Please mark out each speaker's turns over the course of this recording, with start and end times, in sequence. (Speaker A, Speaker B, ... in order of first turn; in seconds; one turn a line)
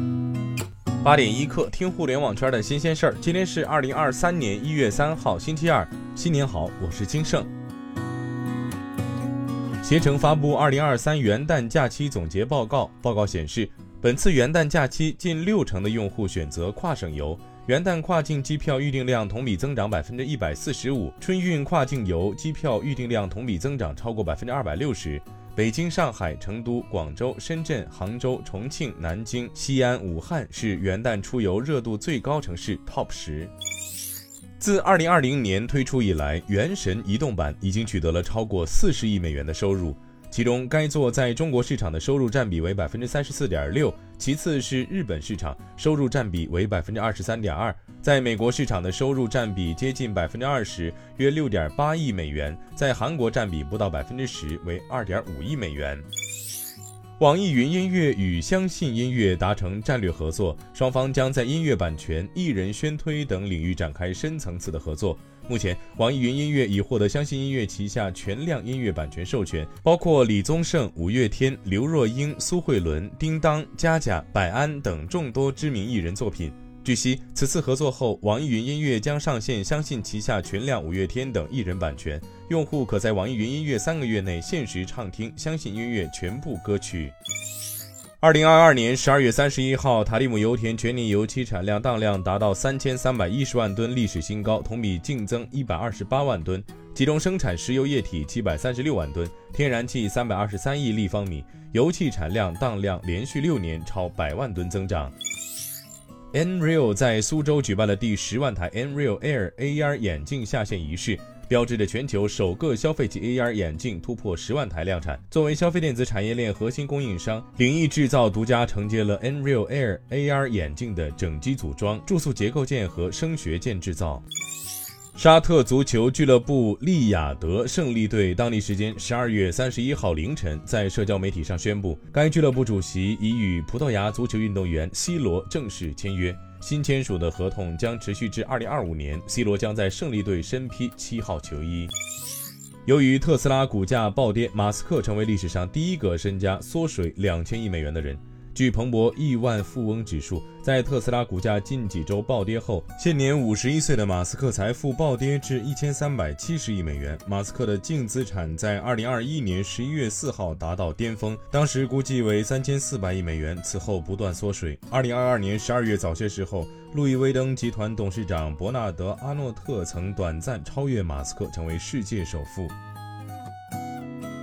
Speaker A: 1.0-7.5
Speaker A: 9.8-33.5
Speaker A: 34.6-56.0
Speaker A: 57.2-87.1
Speaker A: 88.2-105.1
Speaker A: 106.3-124.2
Speaker A: 125.2-141.9
Speaker A: 142.8-172.7